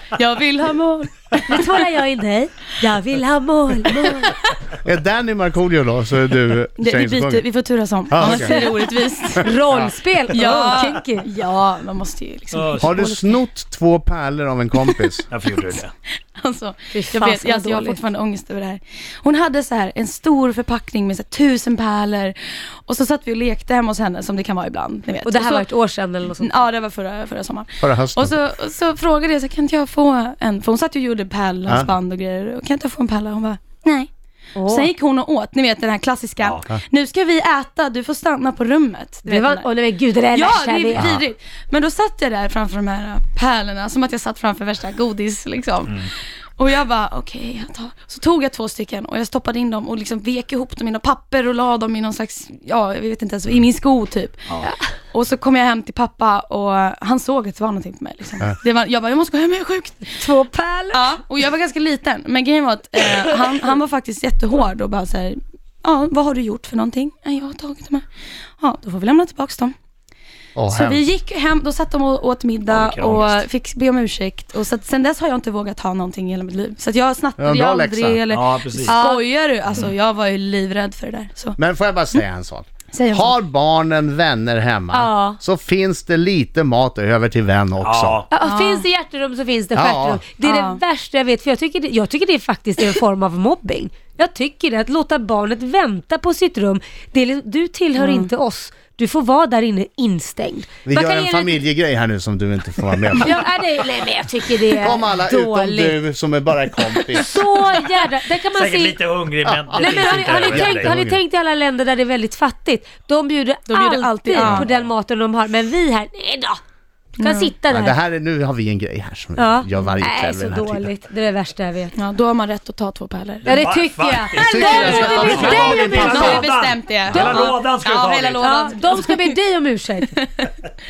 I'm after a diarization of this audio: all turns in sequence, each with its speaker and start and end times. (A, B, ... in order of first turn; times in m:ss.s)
0:00.1-0:01.8 A
0:01.5-0:04.3 B
0:04.2-0:04.5 A
0:04.8-0:07.4 C
0:06.8-0:09.5 A
0:08.1-0:08.6 C
0:08.2-0:11.3 B
0:09.4-0:09.8 C
0:10.3-0:13.3 A
0:12.5-0:13.1 D
0:12.8-0:15.3 C
0:15.3-0:15.9 D
0:16.4-0:25.6 A
0:16.9-0:18.0 B
0:25.2-0:26.6 B
0:26.4-0:39.6 A
0:27.8-0:28.3 C
0:34.6-0:34.9 B
0:39.3-0:41.1 B
0:40.3-0:54.5 A
0:54.6-0:54.9 B
0:55.1-1:00.2 A
1:00.1-1:01.1 B
1:00.9-1:08.0 A
1:08.6-1:09.7 A
1:10.6-1:11.0 C
1:10.7-1:21.6 A
1:12.7-1:13.4 D
1:17.4-1:18.2 C
1:18.3-1:19.0 D
1:18.9-1:19.2 B
1:21.6-1:28.2 C
1:22.9-1:23.4 A
1:24.9-1:25.4 B
1:27.8-1:28.3 D
1:28.3-1:41.6 B
1:28.4-1:28.8 A
1:29.7-1:30.2 C
1:30.4-1:30.8 A
1:38.0-1:38.3 A
1:40.8-1:43.4 C
1:43.2-1:46.0 B
1:44.8-1:47.4 C
1:46.9-1:49.0 B
1:48.5-1:50.9 D
1:49.7-1:51.2 C
1:49.8-1:56.6 B
1:53.7-1:54.7 A
1:57.2-1:57.5 A
1:57.2-1:58.0 B
1:57.7-2:00.9 C
1:59.4-2:01.9 B
2:02.0-2:03.7 A
2:03.4-2:08.5 D
2:03.4-2:06.4 B
2:04.3-2:09.4 A
2:04.4-2:06.4 C
2:07.1-2:07.5 B
2:08.4-2:10.1 B
2:10.0-2:10.5 A